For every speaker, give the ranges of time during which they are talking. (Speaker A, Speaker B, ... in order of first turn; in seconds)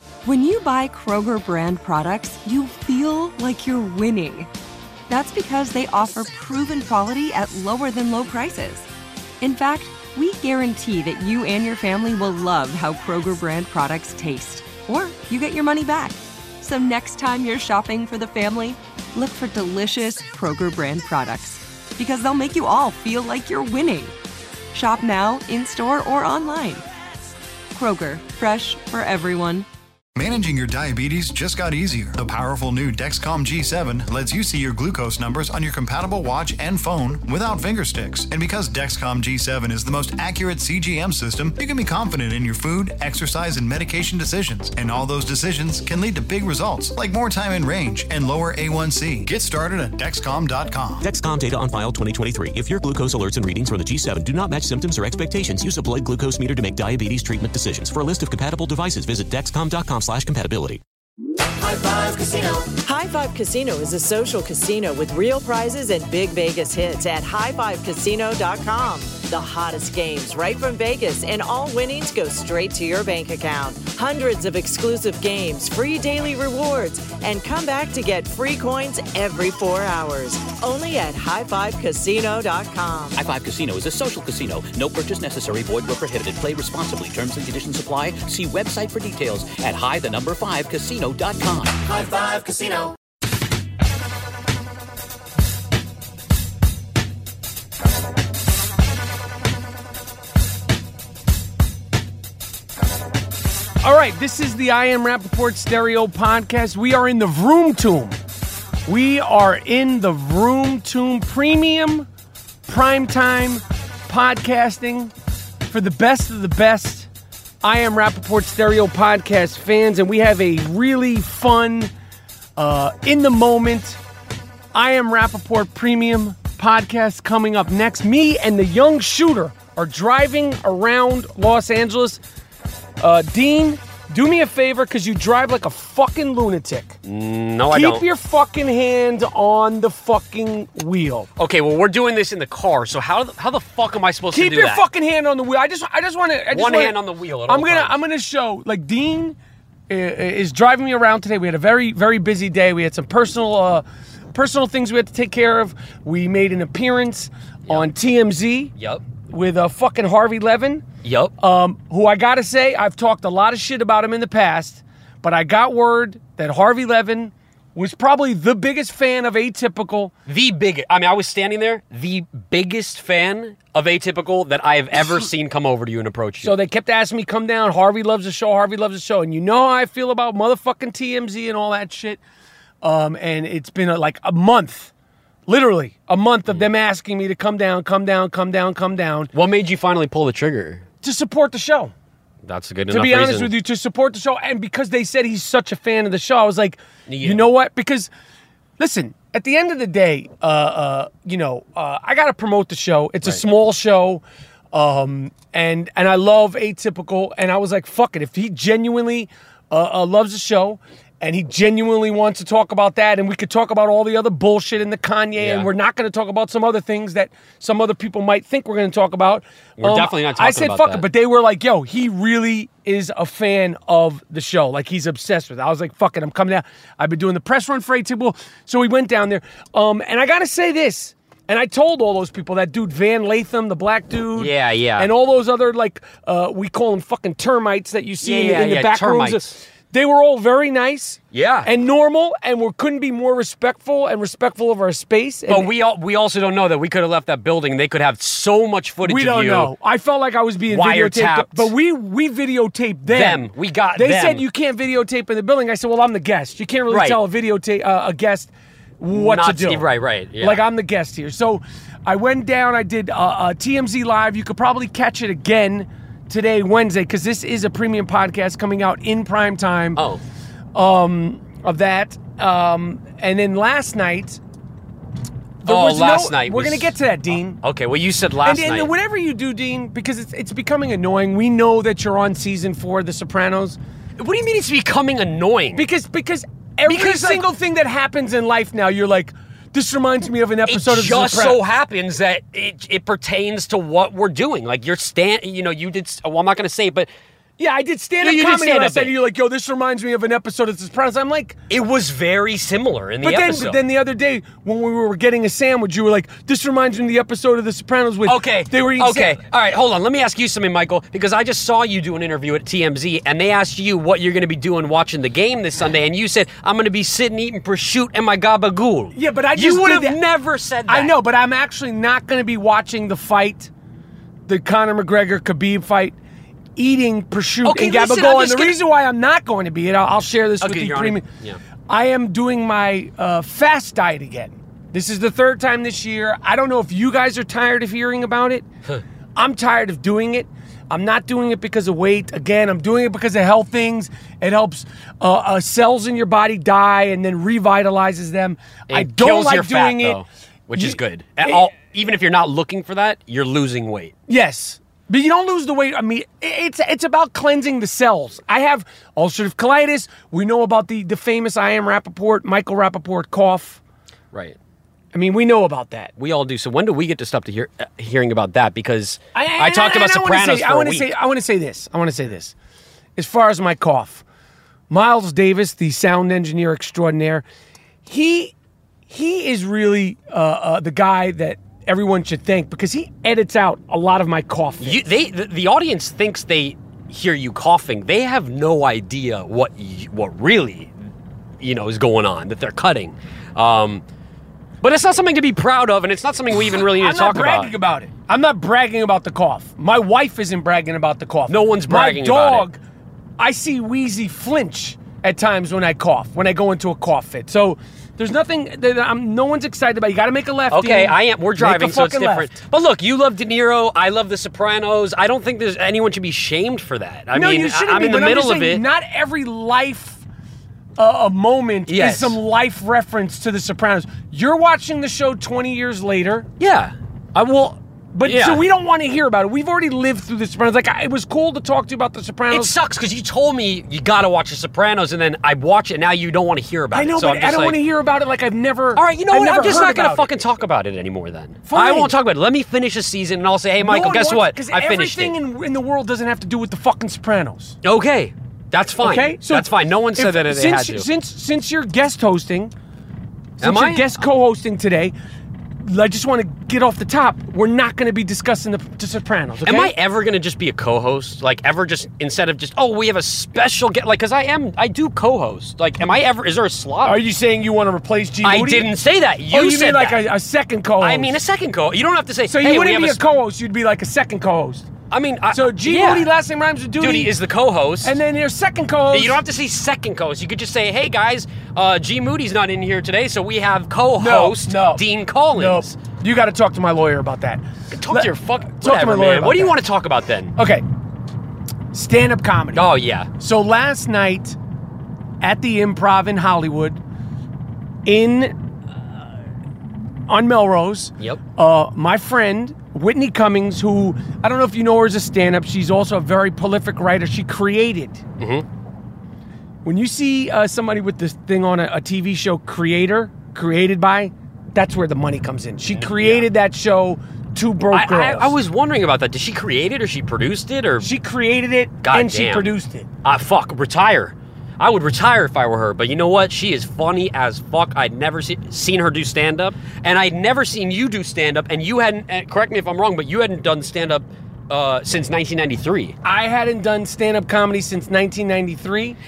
Speaker A: 0.2-4.5, 5.1-8.9, 9.4-24.1, 24.7-26.8, 27.7-29.6
Speaker B: 30.1-51.0
Speaker C: 51.0-60.8
Speaker D: 62.0-83.2
Speaker E: 83.2-92.9
Speaker F: 103.8-108.2, 108.8-112.1, 112.7-115.1, 115.7-117.1, 117.6-121.9, 122.5-124.0, 124.7-132.2, 133.0-137.0, 137.7-141.3, 144.3-146.9, 147.5-149.3, 149.9-158.7, 159.2-160.8, 161.4-170.1, 176.4-182.2, 182.8-184.9, 185.5-189.3, 191.0-191.9, 192.9-198.1, 198.8-245.7, 249.0-259.9, 260.4-270.0, 270.7-274.4, 275.6-277.6, 278.4-283.8, 285.7-291.6, 297.6-301.6, 303.2-309.4, 319.1-320.2, 320.9-323.7, 324.5-326.1, 326.8-331.2, 331.9-338.6, 339.3-350.2, 350.7-351.7, 354.3-363.8, 365.1-366.1, 369.3-372.5, 373.1-374.2, 374.9-377.4, 378.0-378.5, 379.1-385.0, 396.8-402.8, 403.4-412.6, 417.3-420.2, 421.0-426.5, 428.1-432.7, 436.9-440.3, 441.6-442.1, 443.8-447.8, 449.0-452.7, 453.6-455.1, 455.8-459.9, 467.0-468.9, 469.5-471.4, 472.5-474.9, 475.5-477.3, 478.0-479.4, 484.2-489.8, 490.6-490.8, 491.9-492.8, 493.4-494.6, 495.4-497.0, 498.0-498.6, 500.3-508.2, 509.8-518.5, 521.0-523.1, 536.2-539.2
Speaker G: 137.0-138.0, 141.4-144.8, 146.5-148.0, 158.8-159.0, 161.0-161.3, 170.3-176.5, 189.3-190.8, 192.4-193.5, 197.1-197.5, 215.4-215.7, 219.8-221.1, 234.4-235.1, 238.2-239.5, 241.3-241.7, 245.5-249.7, 250.7-251.7, 253.1-254.4, 256.9-257.2, 259.1-260.6, 269.9-270.2, 275.6-276.9, 277.6-278.9, 284.2-285.9, 286.9-287.5, 290.7-297.1, 298.2-299.1, 301.7-303.8, 308.2-321.1, 327.6-328.8, 330.6-331.6, 348.9-354.1, 366.2-371.1, 384.8-390.9, 391.6-394.0, 394.8-397.7, 401.5-402.7, 410.7-418.8, 421.9-422.4, 426.6-428.6, 432.5-437.8, 438.9-445.4, 447.8-451.1, 453.6-454.2, 459.6-467.2, 468.4-470.2, 471.0-473.2, 475.1-476.3, 477.0-478.2, 479.1-486.0, 487.9-490.5, 492.7-493.3, 508.4-508.6, 515.9-516.5, 517.9-521.1, 522.0-522.7, 523.2-536.2